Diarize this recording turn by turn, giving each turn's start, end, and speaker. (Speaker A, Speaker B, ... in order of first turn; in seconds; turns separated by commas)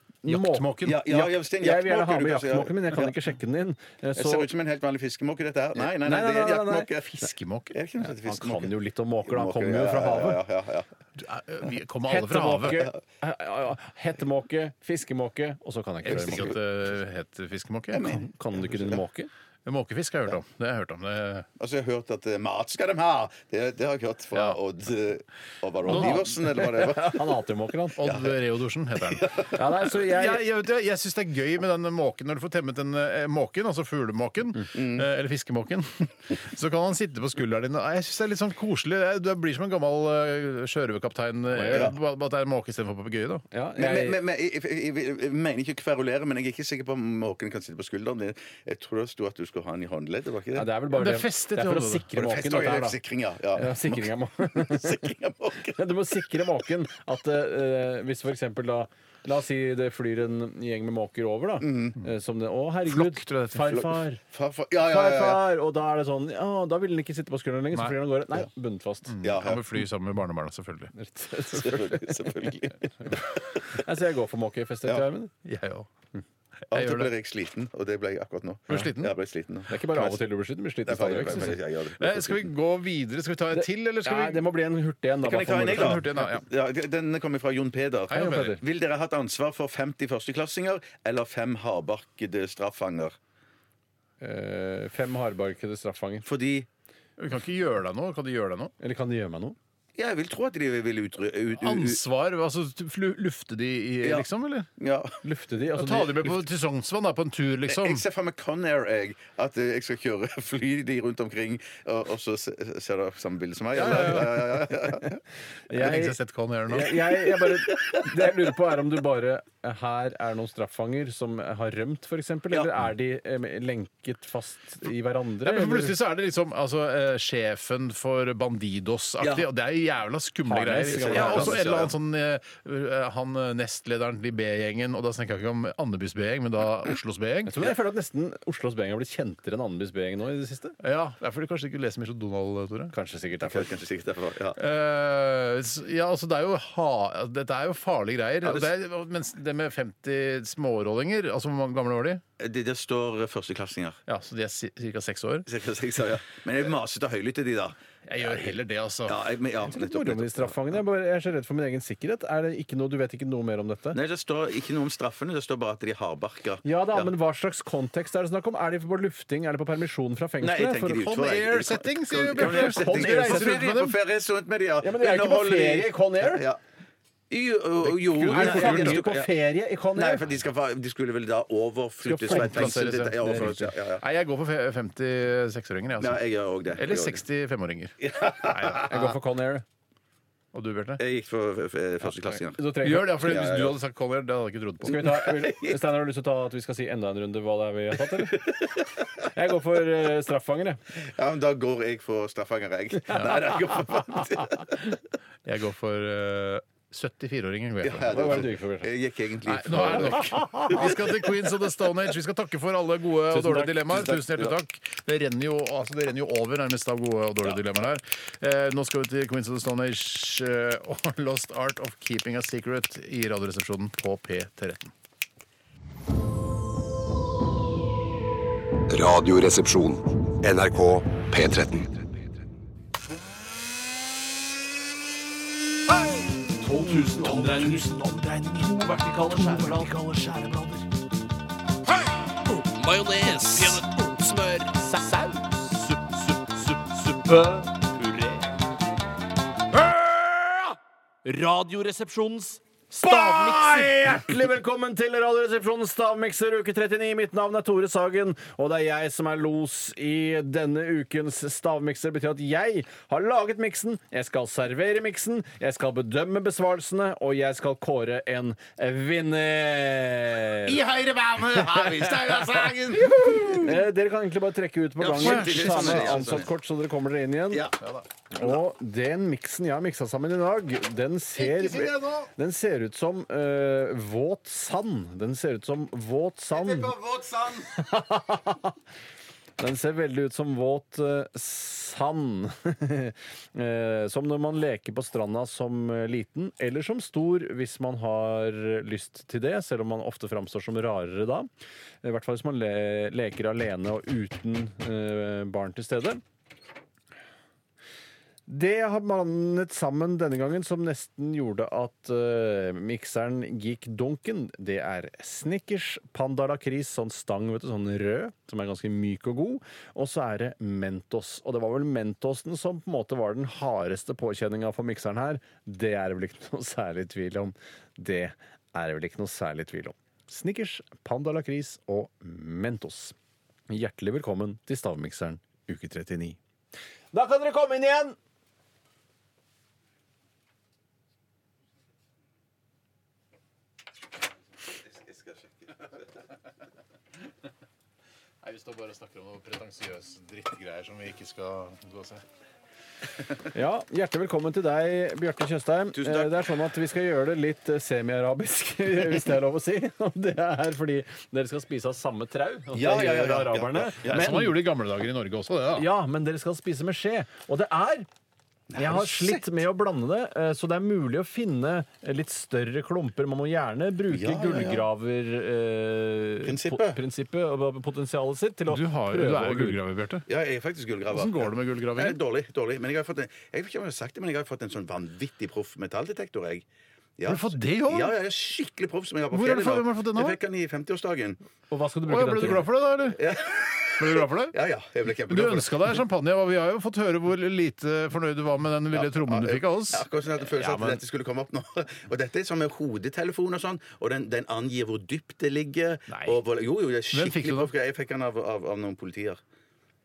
Speaker A: 0.2-4.5, Speaker B: 0.3-1.1, Speaker C: 0.8-3.2, Speaker C: 4.2-10.9, Speaker A: 5.8-6.9, Speaker B: 7.1-7.8, Speaker A: 8.2-10.4, Speaker B: 11.2-12.9, Speaker A: 12.1-16.6, Speaker B: 16.0-18.2, Speaker C: 16.1-16.6, Speaker C: 17.9-19.0, Speaker A: 18.1-19.3, Speaker B: 19.7-21.5, Speaker C: 21.6-27.2, Speaker B: 24.3-24.6, Speaker A: 25.9-28.0, Speaker B: 25.9-26.3, Speaker B: 28.0-43.5, Speaker C: 28.0-28.4, Speaker C: 29.0-29.6, Speaker A: 29.5-30.4, Speaker C: 34.7-35.1, Speaker A: 41.5-41.9, Speaker C: 41.7-42.0, Speaker A: 43.5-44.2, Speaker C: 43.8-50.7, Speaker A: 50.5-53.0, Speaker B: 50.9-52.1, Speaker C: 52.1-56.5, Speaker A: 53.5-55.1, Speaker A: 55.6-64.2, Speaker C: 61.6-62.0, Speaker B: 62.9-63.8, Speaker C: 63.7-65.4, Speaker A: 64.8-69.2, Speaker B: 69.1-70.9, Speaker C: 69.2-69.8, Speaker A: 70.9-72.5, Speaker C: 71.5-73.4, Speaker A: 73.1-75.3, Speaker B: 75.5-75.9, Speaker C: 76.7-80.2, Speaker B: 76.7-77.1, Speaker B: 78.7-79.1, Speaker A: 79.7-81.6, Speaker C: 80.8-82.5, Speaker B: 82.0-84.5, Speaker A: 83.5-86.2, Speaker C: 85.2-93.2, Speaker B: 85.7-86.5, Speaker B: 88.1-88.6, Speaker A: 88.1-88.6, Speaker A: 94.2-96.3, Speaker C: 96.2-96.7, Speaker B: 97.2-98.7, Speaker A: 98.8-99.6, Speaker C: 100.0-102.0, Speaker B: 101.6-104.7, Speaker C: 104.0-105.2, Speaker A: 105.2-106.4, Speaker B: 105.8-108.0, Speaker C: 107.7-115.2, Speaker A: 113.8-114.3, Speaker B: 113.8-114.5, Speaker A: 115.7-116.2, Speaker B: 115.7-117.0, Speaker A: 116.7-126.0, Speaker C: 117.2-118.3, Speaker B: 125.5-137.6, Speaker C: 129.2-129.5, Speaker A: 130.5-131.7, Speaker C: 130.9-131.9, Speaker A: 137.5-140.8, Speaker B: 140.8-142.9, Speaker A: 142.9-143.7, Speaker C: 143.4-144.6, Speaker B: 144.6-152.2, Speaker C: 148.4-148.7, Speaker C: 152.4-154.0, Speaker B: 154.1-155.5, Speaker C: 155.5-158.5, Speaker B: 158.1-159.2, Speaker C: 159.1-160.8, Speaker A: 159.7-164.0, Speaker C: 163.9-167.1, Speaker A: 166.6-171.0, Speaker C: 170.4-176.6, Speaker B: 170.9-174.0, Speaker A: 172.3-173.6, Speaker A: 174.8-176.4, Speaker C: 177.3-179.3, Speaker B: 178.0-179.1, Speaker A: 178.2-180.3, Speaker C: 179.9-184.0, Speaker A: 182.0-183.7, Speaker B: 182.3-186.2, Speaker C: 186.0-187.2, Speaker B: 186.8-189.0, Speaker C: 188.0-189.1, Speaker A: 188.8-189.6, Speaker B: 190.5-191.0, Speaker C: 191.0-193.8, Speaker A: 192.6-193.2, Speaker B: 192.8-195.1, Speaker A: 194.8-200.8, Speaker C: 194.9-195.8, Speaker C: 198.1-199.2, Speaker C: 200.9-204.8, Speaker B: 205.4-208.4, Speaker C: 207.8-211.2, Speaker A: 208.1-208.9, Speaker B: 209.5-224.9, Speaker A: 210.3-210.8, Speaker A: 213.3-213.9, Speaker C: 213.9-214.5, Speaker D: 228.9-231.9, Speaker E: 236.5-240.9, Speaker A: 236.6-237.8, Speaker A: 238.8-239.9, Speaker E: 242.4-248.3, Speaker E: 249.8-250.7, Speaker E: 251.2-252.6, Speaker A: 252.9-270.8, Speaker B: 253.1-253.9, Speaker B: 270.7-273.6, Speaker C: 270.9-273.8, Speaker A: 273.5-277.7, Speaker C: 275.0-276.5, Speaker B: 275.2-276.5, Speaker C: 277.5-277.8, Speaker B: 277.8-278.1, Speaker A: 278.3-286.9, Speaker B: 281.4-282.3, Speaker C: 281.4-281.9, Speaker B: 286.7-287.3, Speaker C: 286.9-287.7, Speaker A: 287.7-288.7, Speaker A: 289.6-301.5, Speaker A: 302.0-306.2, Speaker A: 308.5-333.1, Speaker A: 333.7-336.4, Speaker A: 337.1-338.2, Speaker C: 344.7-346.1, Speaker B: 348.4-352.2, Speaker A: 353.5-364.6, Speaker C: 355.9-356.4, Speaker C: 362.7-364.6, Speaker B: 364.1-365.9, Speaker A: 365.8-368.1, Speaker C: 368.7-369.6, Speaker A: 368.8-379.8, Speaker C: 374.1-374.9, Speaker C: 376.4-377.0, Speaker B: 378.7-380.2, Speaker C: 380.3-386.7, Speaker B: 381.1-382.2, Speaker C: 387.2-391.4, Speaker B: 387.3-388.1, Speaker B: 389.3-390.4, Speaker A: 391.7-392.7, Speaker B: 392.1-393.3, Speaker C: 393.1-396.0, Speaker B: 394.0-394.6, Speaker B: 395.3-401.0, Speaker C: 398.9-409.4, Speaker A: 406.1-406.4, Speaker B: 407.1-407.7